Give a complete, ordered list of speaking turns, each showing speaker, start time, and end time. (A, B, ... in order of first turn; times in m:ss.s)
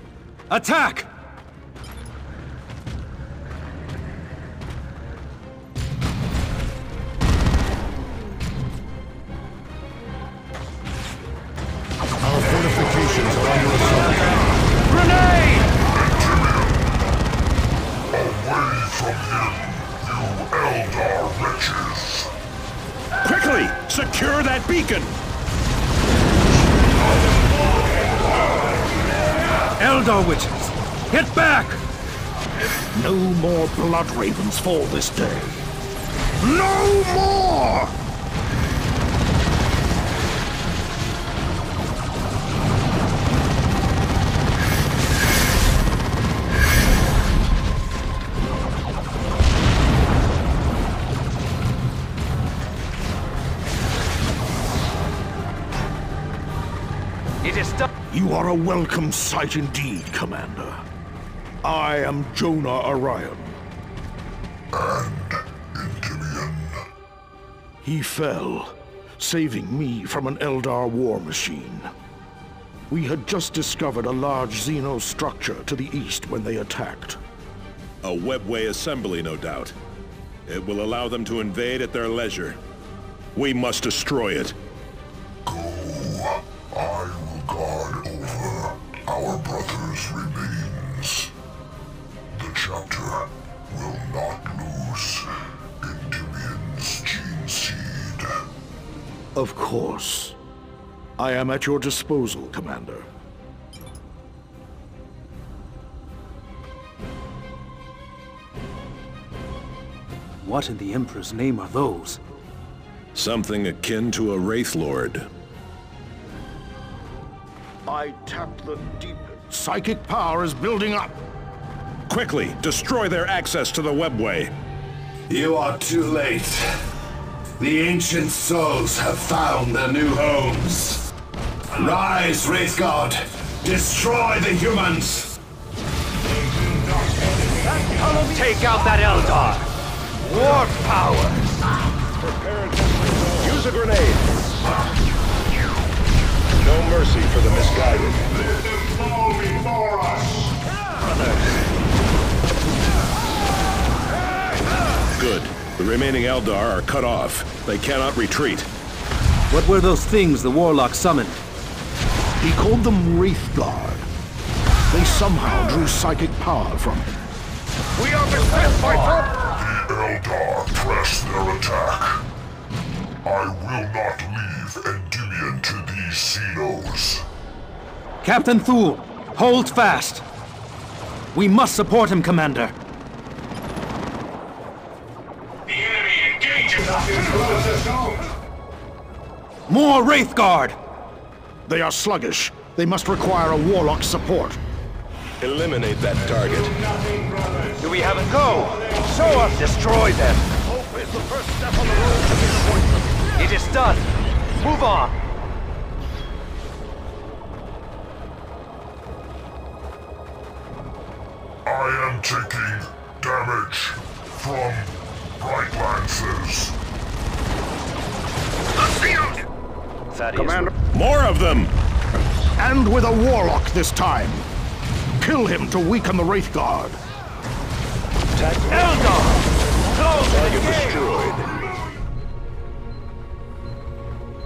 0:00.5-0:01.1 A
0:12.2-0:14.3 B
0:15.9-0:17.0 C
0:18.1-0:22.3 C
0:23.2-0:25.1 D
0:26.7-0:27.3 C
0:29.8-0:31.8 A
0:32.9-0:35.6 B
0:36.4-0:37.9 B
0:57.4-0:57.9 A
0:58.1-1:00.8 B
1:01.6-1:03.6 B
1:04.7-1:06.8 C
1:07.8-1:11.9 B
1:12.9-1:17.2 B
1:18.0-1:19.7 D
1:20.5-1:22.6 D
1:23.3-1:24.5 D
1:25.4-1:31.3 C
1:32.3-1:35.3 C
1:35.8-1:38.4 C
1:39.4-1:40.4 B
1:41.2-1:43.1 B
1:50.4-1:52.2 A
1:53.1-1:55.3 D
1:57.9-2:01.2 B
2:02.1-2:04.5 D
2:05.3-2:06.7 E
2:07.6-2:11.0 E
2:11.8-2:15.3 E
2:18.0-2:19.6 A
2:20.2-2:21.4 A
2:22.2-2:24.2 D
2:26.6-2:28.3 D
2:31.0-2:31.4 A
2:35.2-2:38.7 D
2:39.5-2:41.4 A
2:42.4-2:44.1 B
2:44.9-2:47.1 B
2:48.0-2:49.2 B
2:49.6-2:52.2 C
2:53.2-2:57.2 C
2:58.2-3:00.2 A
3:01.3-3:02.7 A
3:05.8-3:07.2 A
3:09.7-3:10.8 A
3:11.6-3:14.6 B
3:15.4-3:16.8 D
3:17.7-3:20.5 A
3:20.5-3:22.8 B
3:23.3-3:25.1 A
3:31.6-3:36.8 C
3:40.9-3:41.7 D
3:42.6-3:44.5 B
3:45.2-3:47.0 B
3:48.4-3:49.3 D
3:50.0-3:51.6 D